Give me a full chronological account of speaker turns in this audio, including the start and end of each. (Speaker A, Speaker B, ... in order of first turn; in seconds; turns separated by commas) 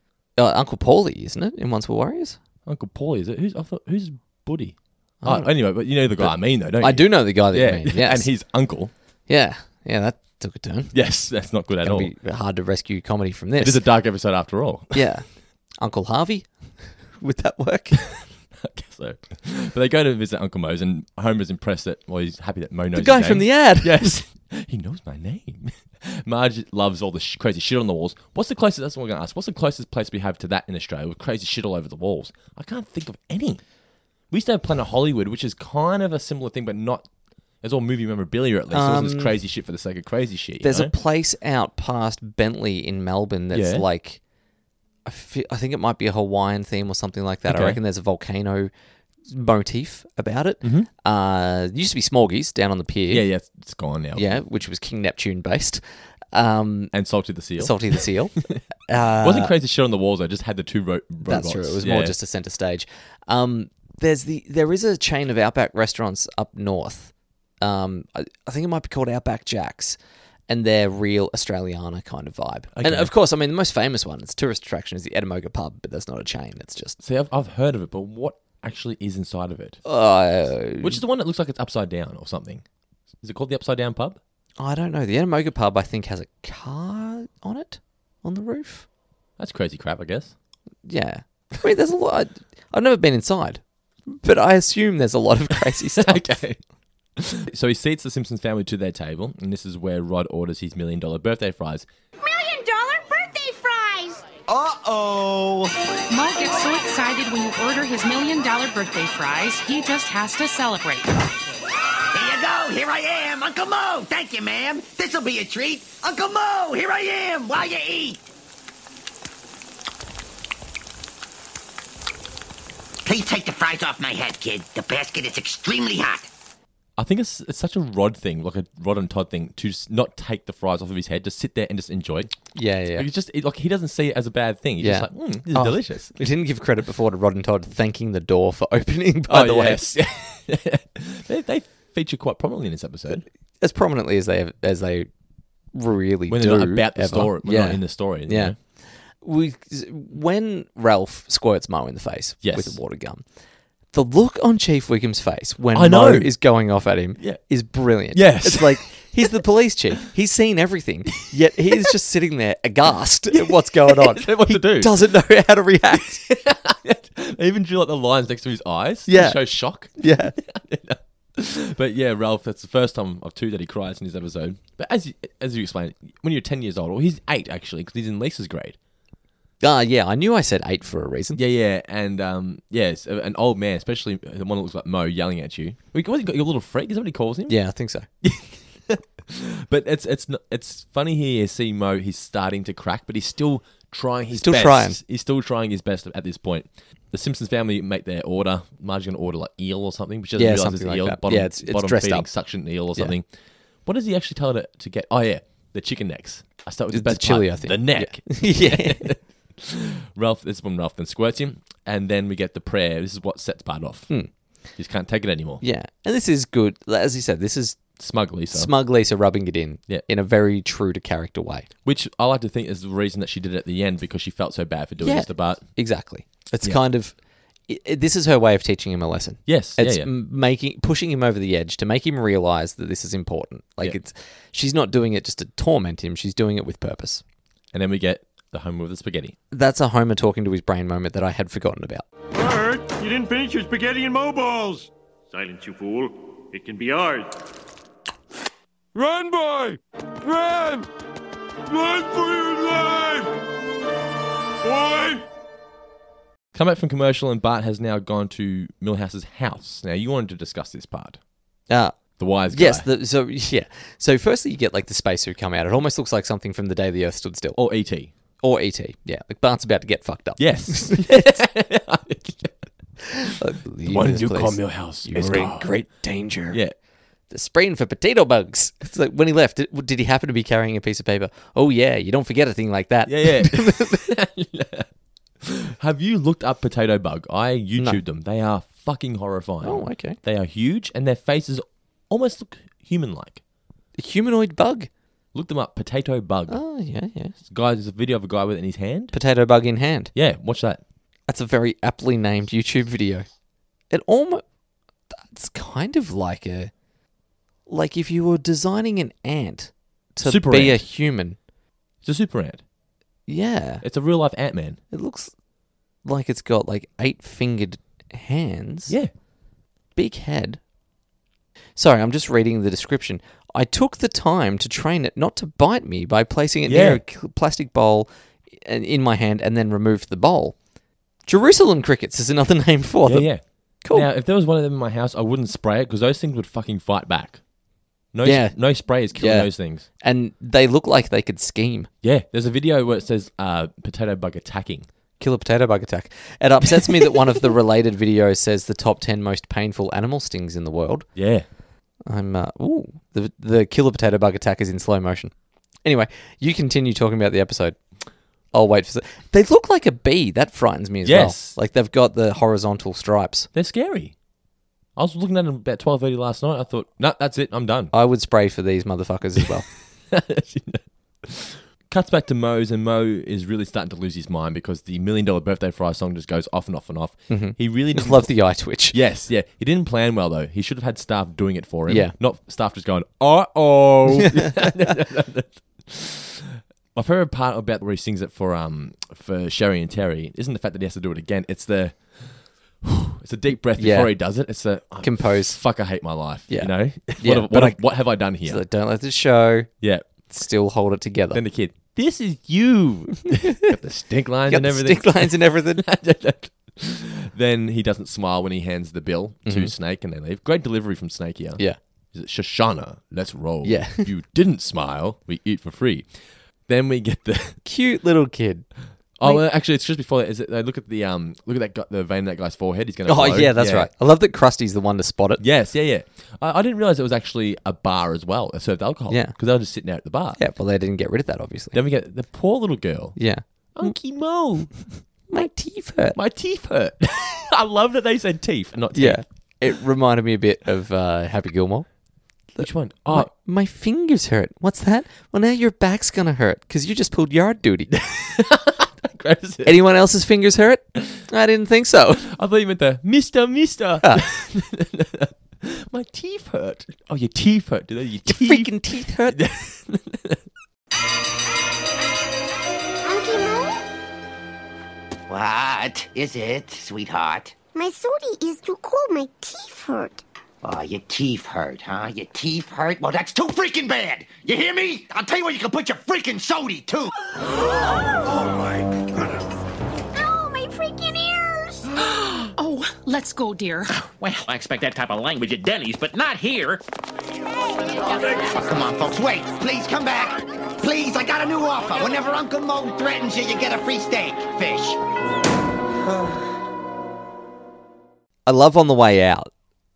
Speaker A: 0.3-2.4, Speaker B: 2.6-8.9, Speaker A: 5.2-8.3, Speaker A: 9.3-10.9, Speaker B: 10.9-12.1, Speaker A: 11.8-13.8, Speaker B: 13.6-15.0, Speaker A: 14.9-15.2, Speaker A: 15.8-18.1, Speaker B: 18.6-33.6, Speaker A: 22.9-24.2, Speaker B: 34.3-37.0, Speaker B: 37.6-40.9, Speaker A: 38.7-39.4, Speaker A: 40.6-44.2, Speaker B: 43.5-43.8, Speaker A: 45.0-48.7, Speaker B: 47.5-47.8, Speaker A: 49.2-53.3, Speaker B: 50.6-50.9, Speaker B: 53.1-54.3, Speaker A: 54.1-56.9, Speaker B: 56.9-58.6, Speaker A: 57.6-59.5, Speaker B: 59.2-62.1, Speaker A: 61.2-77.0, Speaker B: 72.7-73.1, Speaker B: 77.0-79.8, Speaker A: 79.8-81.0, Speaker B: 80.8-82.6, Speaker B: 83.2-84.2, Speaker A: 84.6-88.8, Speaker B: 89.4-90.3, Speaker A: 90.8-96.4, Speaker B: 96.0-96.6, Speaker B: 97.2-101.8, Speaker C: 102.2-104.2, Speaker D: 104.5-105.7, Speaker E: 106.1-111.2, Speaker D: 112.1-118.2, Speaker D: 123.0-126.3, Speaker B: 127.0-132.3, Speaker A: 132.5-133.1, Speaker B: 132.9-136.1, Speaker A: 134.8-139.9, Speaker B: 139.3-143.2, Speaker A: 143.6-145.1, Speaker A: 145.7-148.6, Speaker B: 146.3-148.5, Speaker A: 149.2-153.2, Speaker B: 152.4-152.8, Speaker A: 153.9-166.2, Speaker B: 155.7-156.3, Speaker B: 158.1-159.4, Speaker B: 163.3-164.9, Speaker B: 165.9-178.8, Speaker A: 169.1-170.3, Speaker A: 179.6-181.4, Speaker B: 181.3-187.6, Speaker A: 187.5-188.1, Speaker B: 188.2-203.3, Speaker A: 194.3-195.0, Speaker A: 200.3-202.3, Speaker B: 203.8-214.1, Speaker A: 206.9-209.1, Speaker B: 214.8-215.6, Speaker A: 215.6-217.9, Speaker B: 218.0-218.7, Speaker A: 218.5-221.7, Speaker B: 221.8-225.7, Speaker A: 225.0-227.2, Speaker A: 227.7-237.2, Speaker B: 229.4-230.1, Speaker B: 237.7-239.3, Speaker A: 239.5-242.0, Speaker F: 242.3-247.3, Speaker F: 248.9-250.9, Speaker F: 251.7-253.3, Speaker F: 254.6-255.2, Speaker B: 256.5-261.2, Speaker A: 261.7-267.6, Speaker B: 262.2-262.9, Speaker B: 267.6-268.1, Speaker A: 268.4-271.4, Speaker B: 270.4-272.6, Speaker A: 273.2-276.6, Speaker B: 273.9-275.8, Speaker A: 277.3-284.0, Speaker B: 283.1-284.9, Speaker B: 285.4-293.4, Speaker A: 289.6-290.2, Speaker A: 294.0-294.9, Speaker B: 295.3-296.6, Speaker A: 296.5-297.3, Speaker B: 297.4-299.1, Speaker A: 299.1-300.1, Speaker B: 300.1-300.8, Speaker A: 301.3-303.3, Speaker A: 303.9-304.4, Speaker A: 305.2-306.7, Speaker A: 307.7-311.4, Speaker B: 310.2-310.8, Speaker B: 312.0-312.6, Speaker A: 313.3-313.8, Speaker B: 313.8-314.8, Speaker A: 314.9-315.3, Speaker A: 316.0-318.9, Speaker A: 319.9-320.6, Speaker A: 321.8-330.6, Speaker B: 326.7-327.0, Speaker A: 331.2-333.3, Speaker B: 333.0-337.4, Speaker A: 333.8-334.1, Speaker B: 338.1-339.9, Speaker A: 338.2-341.9, Speaker B: 342.0-344.9, Speaker A: 345.2-351.1, Speaker B: 351.1-351.5, Speaker A: 352.1-355.3, Speaker A: 355.8-357.8, Speaker A: 358.5-363.5, Speaker B: 361.0-361.6, Speaker B: 363.5-364.1, Speaker B: 364.9-367.9, Speaker A: 367.9-369.7, Speaker B: 370.1-378.3, Speaker A: 377.3-379.0, Speaker B: 378.9-386.3, Speaker A: 381.9-382.1, Speaker A: 384.4-384.7, Speaker B: 386.9-398.6, Speaker A: 393.8-394.1, Speaker A: 395.0-395.6, Speaker A: 396.5-399.7, Speaker B: 399.8-400.1, Speaker A: 400.3-401.4, Speaker B: 401.3-417.6, Speaker A: 404.5-405.8, Speaker A: 409.4-409.7, Speaker A: 413.6-414.1, Speaker A: 417.6-418.7, Speaker B: 419.2-423.9, Speaker A: 423.1-425.4, Speaker B: 425.4-430.4, Speaker A: 429.1-429.4, Speaker A: 430.4-431.8, Speaker B: 431.7-433.2, Speaker A: 433.1-433.9, Speaker B: 433.7-434.8, Speaker A: 435.3-436.2, Speaker B: 436.1-439.2, Speaker A: 438.9-441.9, Speaker A: 442.5-447.9, Speaker B: 442.6-443.3, Speaker B: 447.9-449.8, Speaker A: 449.6-452.2, Speaker B: 452.3-458.7, Speaker A: 458.2-459.4, Speaker B: 459.3-460.4, Speaker C: 463.0-463.8, Speaker D: 465.3-467.6, Speaker C: 467.7-470.2, Speaker D: 470.6-477.1, Speaker C: 480.1-481.9, Speaker E: 482.5-483.9, Speaker G: 484.4-486.8, Speaker D: 488.4-495.0, Speaker A: 498.4-499.5